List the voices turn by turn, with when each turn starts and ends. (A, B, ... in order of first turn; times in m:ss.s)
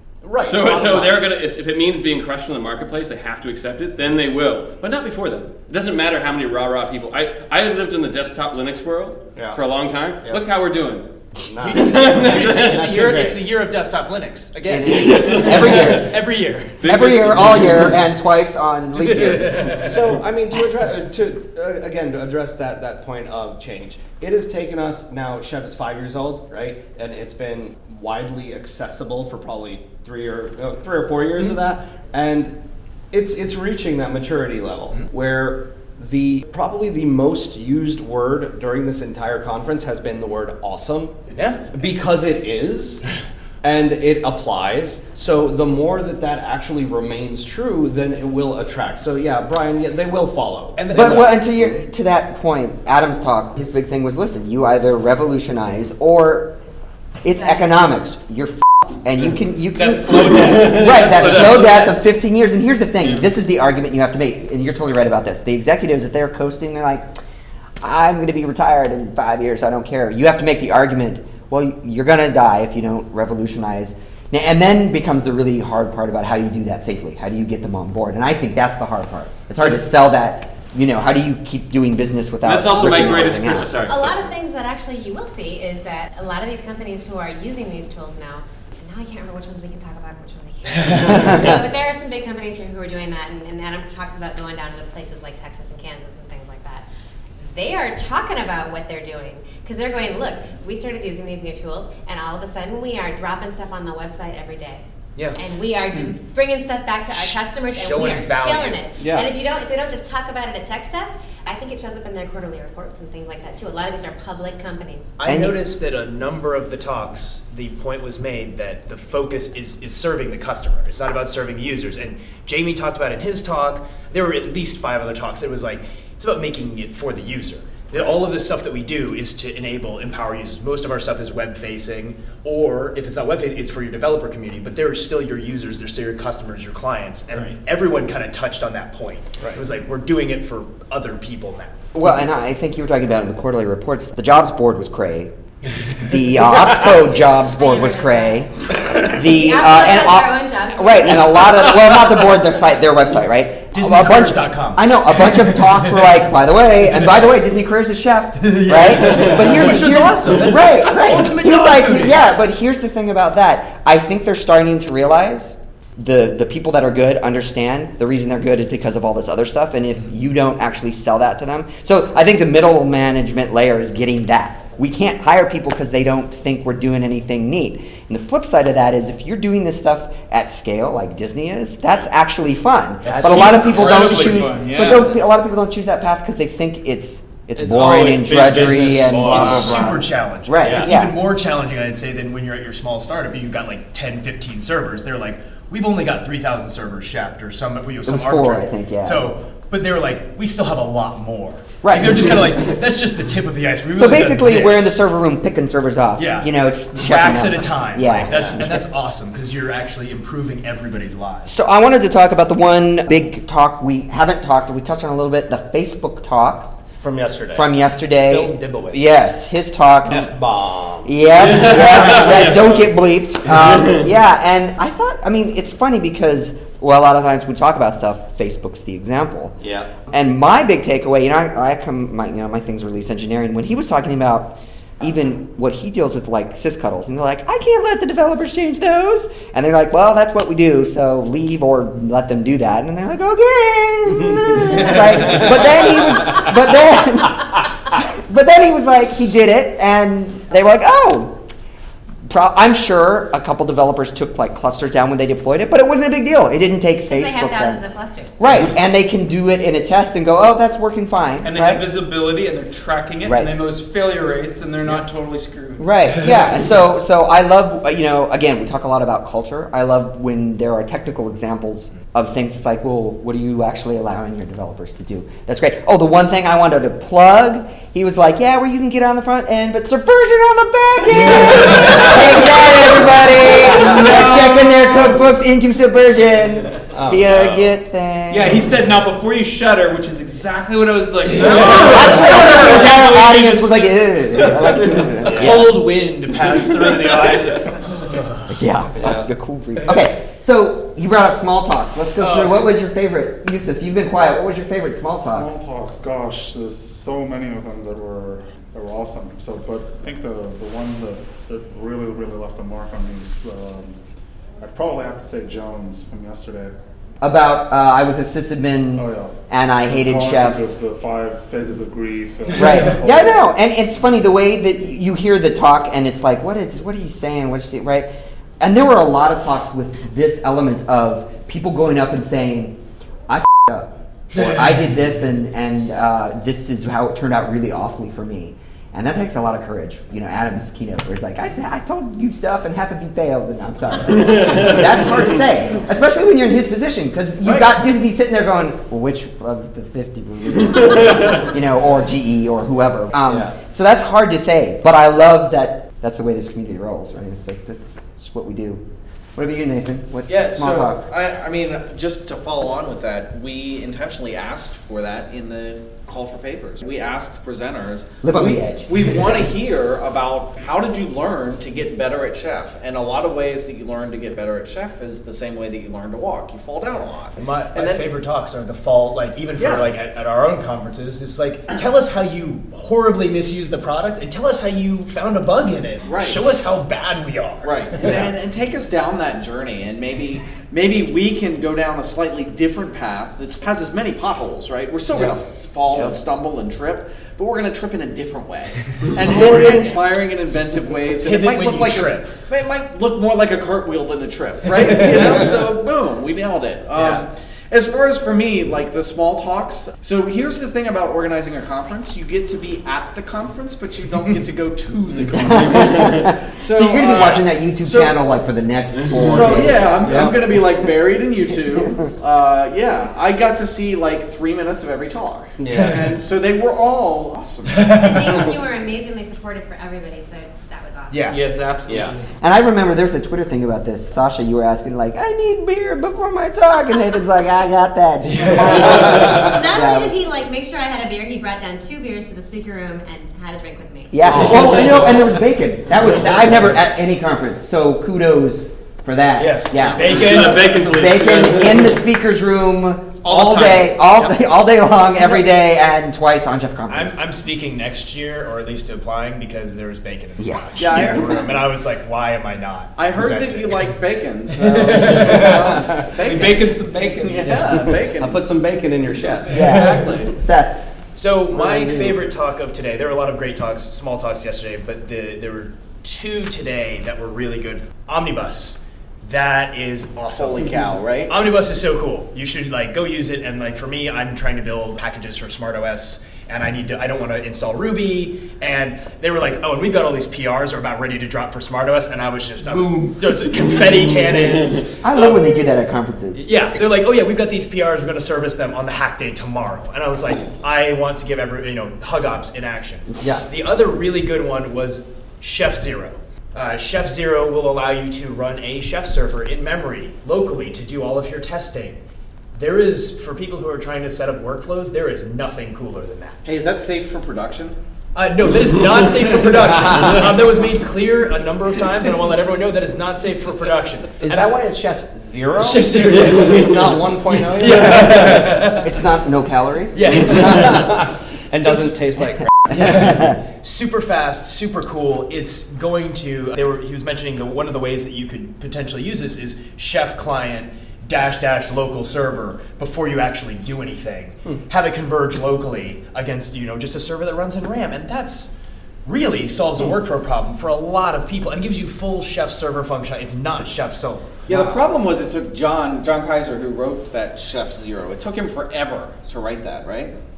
0:00.2-0:01.3 A
0:00.4-0:11.1 B
0:09.4-0:09.6 A
0:11.4-0:13.4 A
0:11.7-0:16.8 C
0:11.7-0:12.9 B
0:14.7-0:16.2 D
0:15.0-0:16.0 B
0:16.8-0:17.9 B
0:16.8-0:19.8 D
0:19.6-0:32.6 A
0:33.1-0:41.2 A
0:41.3-0:41.7 C
0:41.7-0:43.0 A
0:43.6-0:51.3 A
0:50.8-0:51.4 C
0:50.9-0:56.5 D
0:57.2-1:07.1 D
0:57.4-0:57.6 E
0:59.7-1:01.2 F
1:00.4-1:01.9 B
1:07.8-1:23.8 D
1:22.4-1:24.3 B
1:22.8-1:23.2 E
1:23.9-1:36.9 E
1:31.0-1:31.6 D
1:37.4-1:44.8 E
1:45.4-1:55.2 E
1:47.1-1:48.8 C
1:49.0-1:49.3 A
1:55.2-2:21.8 C
1:55.2-1:55.6 D
2:17.3-2:17.6 A
2:21.9-2:25.3 D
2:26.0-3:11.2 D
2:27.4-2:28.5 E
2:29.2-2:31.5 E
2:33.7-2:36.1 C
2:38.4-2:42.2 C
3:03.0-3:04.4 A
3:03.2-3:05.1 F
3:07.6-3:10.0 A
3:09.2-3:25.0 C
3:10.6-3:11.0 A
3:18.0-3:19.3 D
3:21.8-3:22.6 D
3:24.0-3:28.9 D
3:26.2-3:31.5 C
3:28.3-3:28.6 A
3:31.5-3:36.7 D
3:37.0-3:39.3 A
3:37.5-3:40.3 D
3:40.0-3:42.4 A
3:41.0-3:49.6 D
3:41.7-3:42.5 B
3:49.6-3:49.9 A
3:50.1-4:11.4 D
4:12.3-4:17.8 D
4:17.1-4:18.6 E
4:18.4-4:21.8 D
4:21.4-4:26.4 F
4:23.2-4:23.5 D
4:25.8-4:48.6 D
4:43.7-4:44.0 A
4:44.0-4:44.8 F
4:46.9-4:47.7 A
4:48.3-4:53.8 F
4:51.5-4:55.8 D
4:55.2-4:55.7 A
4:55.3-4:58.4 C
4:58.5-5:05.5 D
4:59.0-4:59.3 A
5:02.2-5:02.7 C
5:05.2-5:14.0 G
5:14.6-5:16.7 G
5:17.2-5:20.6 D
5:19.0-5:23.5 G
5:22.5-5:32.8 D
5:33.3-5:58.8 D
5:53.3-5:53.5 A
5:59.4-6:01.0 D
6:00.3-6:18.1 H
6:08.2-6:09.0 D
6:17.4-6:28.3 C
6:19.6-6:19.9 H
6:26.0-6:26.8 H
6:27.6-6:58.2 H
6:39.2-6:39.9 C
6:41.2-6:42.4 C
6:55.4-7:00.4 D
6:55.7-6:56.2 B
6:59.0-6:59.5 B
6:59.1-7:08.1 H
7:00.0-7:00.5 A
7:05.6-7:06.1 A
7:07.7-7:08.4 C
7:08.0-7:11.3 E
7:11.1-7:11.4 C
7:11.3-7:12.2 F
7:11.9-7:12.2 A
7:12.4-7:20.2 D
7:18.4-7:19.1 C
7:19.4-7:24.8 E
7:24.1-7:37.2 D
7:24.3-7:24.9 A
7:29.4-7:30.9 C
7:30.1-7:32.0 B
7:33.3-7:33.8 F
7:36.9-7:44.0 C
7:40.4-7:41.2 D
7:40.8-7:41.6 H
7:43.0-7:48.4 H
7:44.9-7:45.6 F
7:45.0-7:45.5 C
7:46.2-7:47.8 F
7:47.5-7:49.6 A
7:49.5-7:50.8 D
7:49.5-7:50.3 H
7:51.2-8:15.6 C
8:00.3-8:01.4 H
8:12.6-8:13.1 F
8:15.0-8:16.5 D
8:16.4-8:32.0 C
8:23.2-8:23.5 D
8:32.6-8:36.4 C
8:36.4-8:37.8 H
8:38.2-8:44.6 C
8:44.2-8:48.5 A
8:45.6-8:46.9 C
8:47.4-8:48.9 C
8:48.0-8:50.4 D
8:50.0-8:50.9 C
8:50.2-8:53.1 A
8:52.7-9:08.5 C
9:09.0-9:14.6 C
9:14.5-9:20.1 H